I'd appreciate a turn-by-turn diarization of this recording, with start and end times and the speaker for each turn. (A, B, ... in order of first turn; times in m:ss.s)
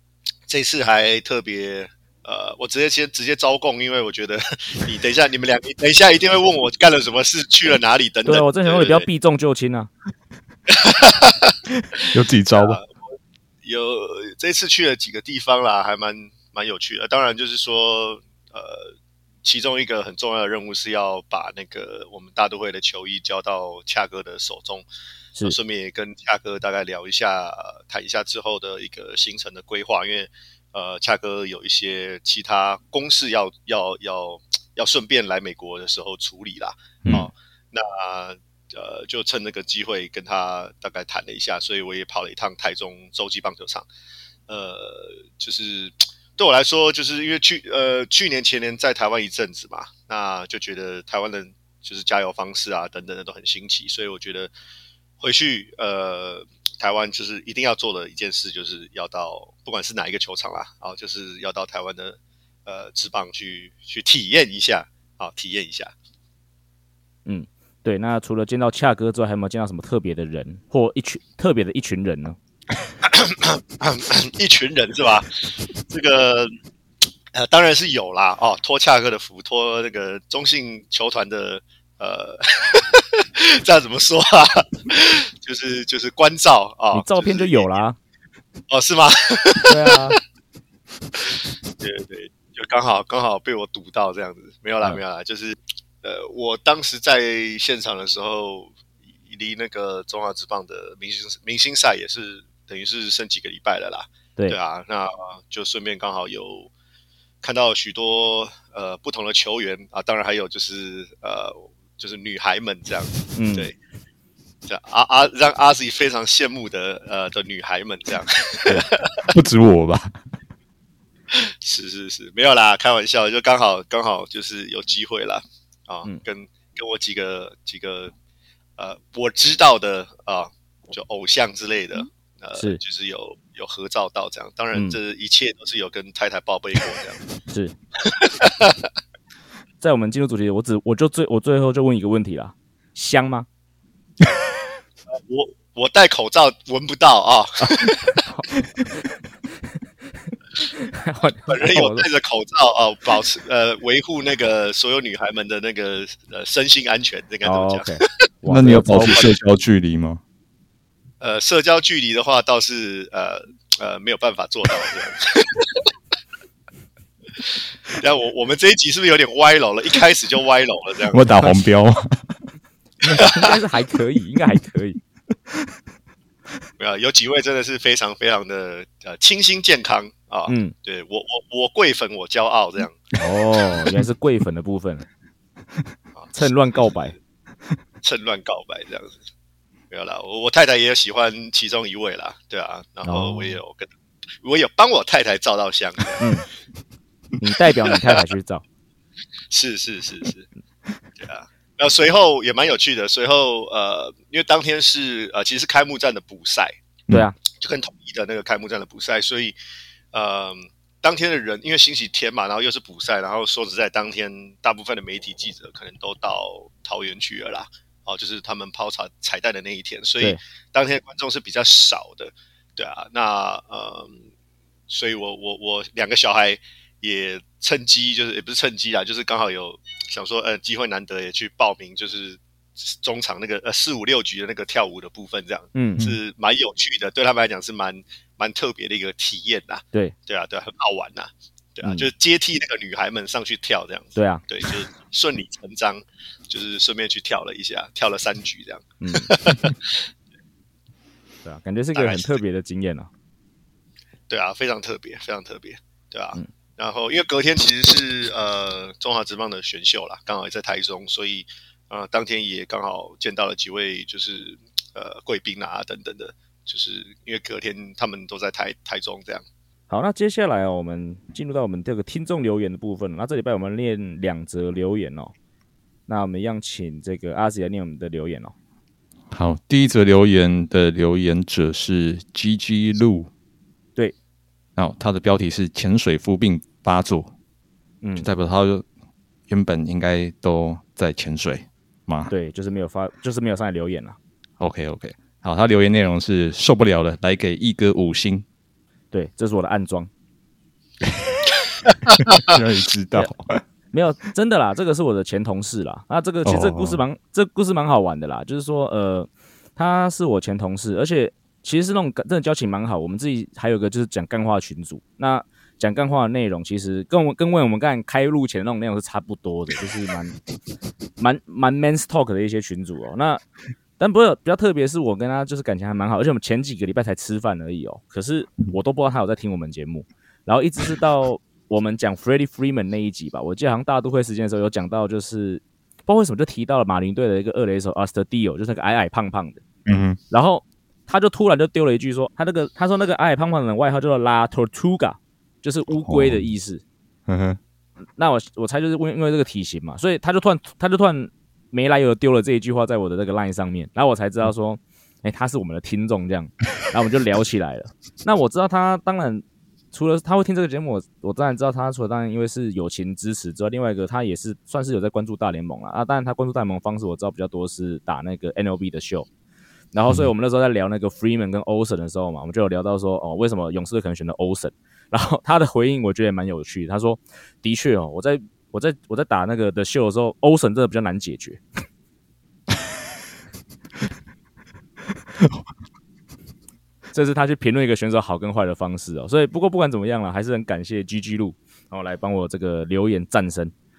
0:00.5-0:09.1 A
0:08.3-0:09.9 B
0:10.7-0:12.9 A
0:12.0-0:12.8 C
0:13.6-0:18.9 A
0:19.4-0:24.9 A
0:25.4-0:43.9 A
0:44.5-0:54.5 A
0:55.2-1:05.9 A
1:07.3-1:12.4 B
1:13.0-1:16.6 A
1:17.3-1:27.7 A
1:26.9-1:28.0 B
1:28.7-1:30.1 A
1:29.7-1:30.2 B
1:31.2-1:38.8 A
1:39.3-1:46.7 A
1:47.4-1:53.8 A
1:53.4-1:53.7 B
1:54.7-1:59.3 A
1:59.3-2:00.2 C
2:01.3-2:08.1 A
2:08.8-2:17.2 A
2:17.5-2:17.8 B
2:18.0-2:18.8 A
2:19.8-2:23.5 B
2:25.2-2:28.2 A
2:27.6-2:29.0 B
2:30.6-2:32.0 B
2:31.5-2:38.1 A
2:37.4-2:39.3 B
2:38.5-2:40.2 C
2:41.2-2:45.9 A
2:47.4-2:51.3 A
2:51.1-2:52.3 C
2:53.0-2:55.0 B
2:53.1-2:53.4 A
2:56.8-3:03.0 A
3:00.5-3:00.7 B
3:03.2-3:05.1 B
3:06.2-3:06.5 A
3:06.4-3:07.2 B
3:08.0-3:09.2 A
3:09.9-3:13.9 A
3:13.1-3:13.6 B
3:14.4-3:16.3 A
3:16.2-3:16.4 B
3:17.4-3:18.6 B
3:17.9-3:18.2 A
3:19.5-3:20.5 A
3:21.2-3:26.7 A
3:27.1-3:27.4 B
3:27.5-3:29.6 A
3:30.1-3:44.2 A
3:44.9-4:10.0 A
3:55.8-3:56.1 B
4:01.8-4:02.1 B
4:04.2-4:04.4 B
4:09.0-4:09.7 B
4:11.4-4:13.1 B
4:12.0-4:12.4 A
4:14.3-4:29.4 A
4:29.9-4:35.3 B
4:36.1-4:38.5 B
4:39.3-4:43.3 C
4:44.8-4:47.3 C
4:48.0-4:48.3 B
4:48.2-4:48.8 C
4:49.5-4:52.3 C
4:52.3-4:54.2 B
4:54.6-4:58.4 C
4:59.1-5:00.1 B
5:01.1-5:01.4 C
5:02.3-5:03.6 C
5:03.9-5:20.4 B
5:06.4-5:07.0 C
5:21.2-5:23.4 B
5:24.0-5:39.6 B
5:39.9-5:40.2 C
5:40.3-5:46.8 B
5:45.9-5:46.4 C
5:47.3-5:47.6 C
5:48.2-6:09.3 B
6:09.9-6:21.6 B
6:27.1-6:33.7 B